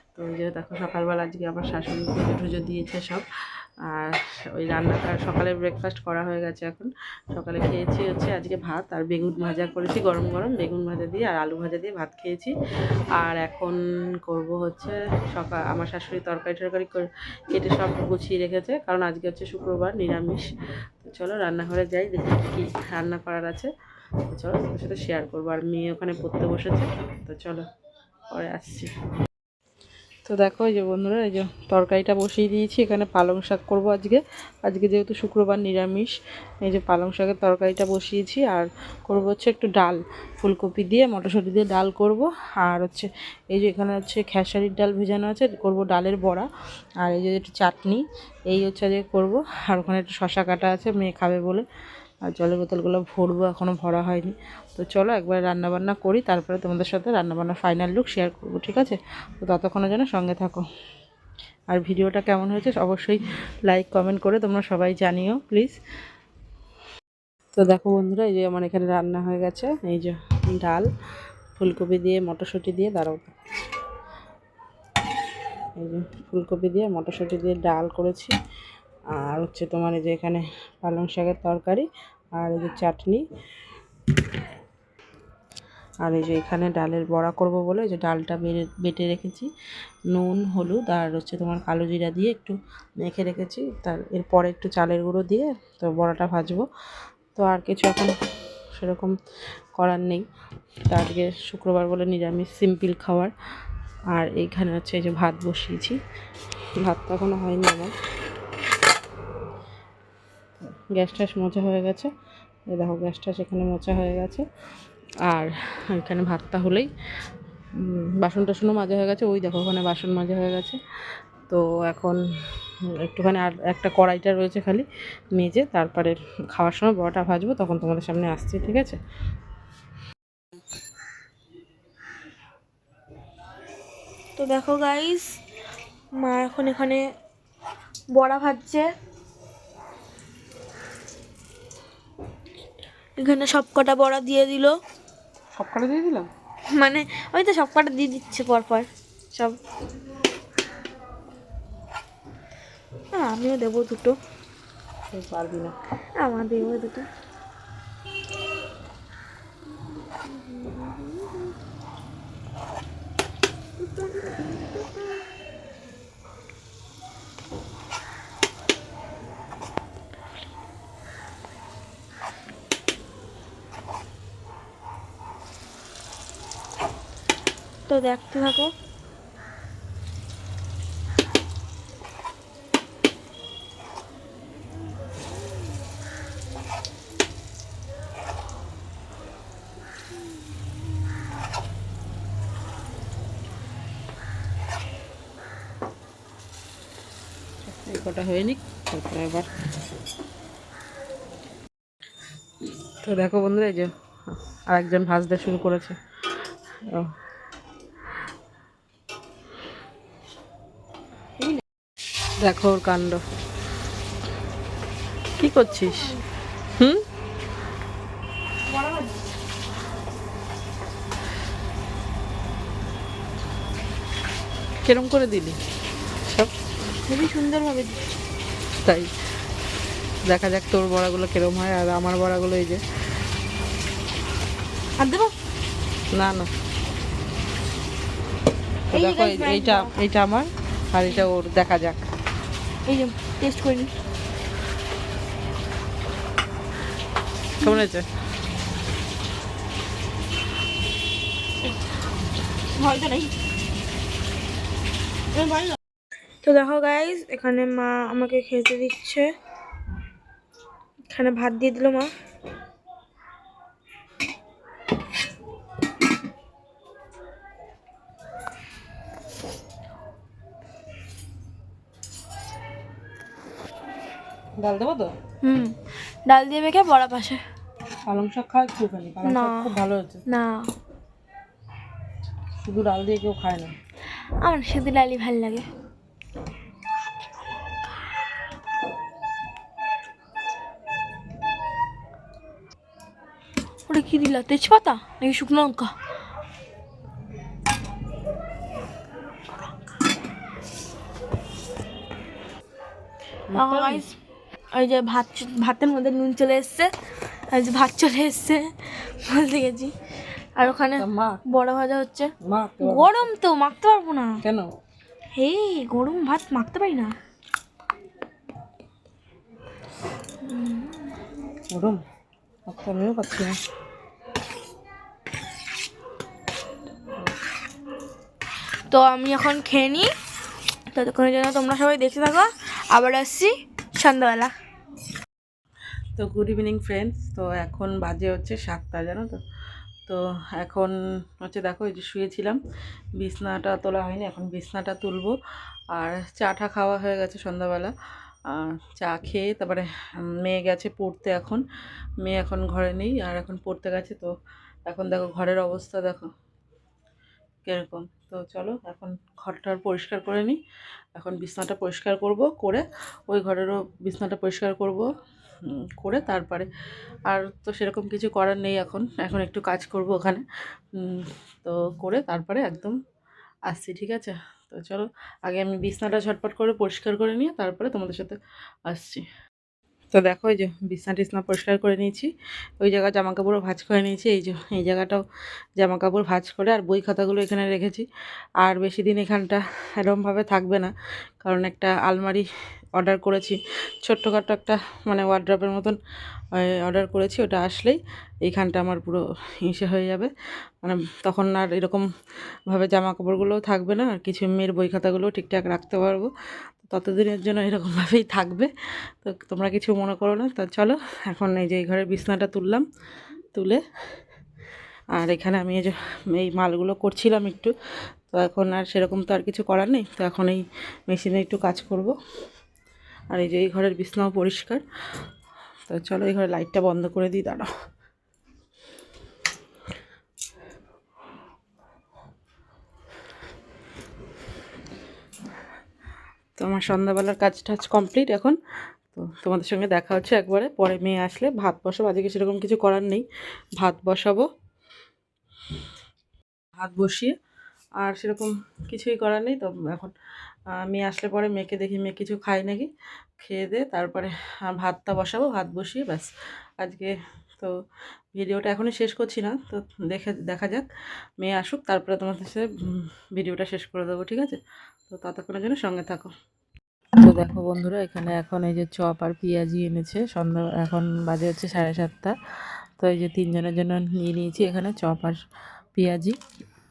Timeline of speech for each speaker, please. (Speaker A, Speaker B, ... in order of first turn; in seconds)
Speaker A: 0.1-3.2, 3.9-12.5, 13.2-20.5, 21.0-23.7, 24.3-27.6, 28.3-28.9, 30.2-46.5, 47.0-51.6, 52.2-60.6, 61.7-65.8, 67.5-70.9, 71.6-73.5, 75.8-78.3, 79.1-83.2, 86.0-89.5, 90.1-96.7, 97.3-98.1, 98.8-99.2, 99.7-100.2, 100.9-103.3, 104.1-106.0, 106.8-107.9, 110.9-112.1, 112.7-114.4, 115.2-116.9, 117.8-120.8, 121.5-122.2, 123.0-129.0, 145.5-146.3, 155.1-155.7, 197.6-199.5, 203.0-206.0, 212.4-213.2, 215.4-216.1, 216.8-217.0, 224.8-225.6, 228.8-229.1, 230.3-232.8, 236.1-236.5, 238.9-242.0, 247.6-248.1, 274.6-275.1, 278.0-280.2, 282.6-283.7, 303.5-304.0, 311.0-311.4, 312.4-313.3, 314.4-314.7, 321.7-322.0, 322.7-323.6, 336.1-339.4, 340.1-342.6, 343.2-345.3, 345.9-347.9, 348.5-351.6, 352.2-354.3, 354.9-356.3, 357.6-360.6, 361.1-365.1, 365.6-366.7, 367.2-372.9, 373.7-379.2, 380.1-385.2, 385.8-388.1, 388.6-396.0, 396.5-400.3, 400.8-402.1, 402.7-412.9, 413.5-413.8, 415.1-417.7, 418.3-422.1, 423.3-424.8, 425.9-427.7, 436.6-438.6, 439.1-443.2, 443.8-444.4, 446.8-447.3, 448.0-450.1, 450.7-452.9, 453.4-456.3, 456.8-457.7, 458.3-460.9, 461.4-466.3, 467.2-472.4, 473.0-475.4, 475.9-476.4
Speaker B: 134.4-135.2, 136.2-137.0, 138.1-138.9, 143.2-144.7, 146.7-149.6, 153.1-154.2, 156.2-157.1, 177.9-178.7, 215.8-216.1, 218.7-219.2, 227.0-228.0, 235.0-235.3, 238.9-239.9, 242.8-243.9, 252.7-253.3, 255.3-255.8, 256.4-259.3, 261.1-262.1, 275.4-275.7, 276.2-277.4, 279.2-279.7, 280.2-280.7, 284.4-285.6, 293.9-295.9, 303.5-304.1, 304.7-306.9, 307.5-309.9, 310.6-314.4, 315.3-317.1, 320.4-321.1, 328.9-330.1, 330.9-334.5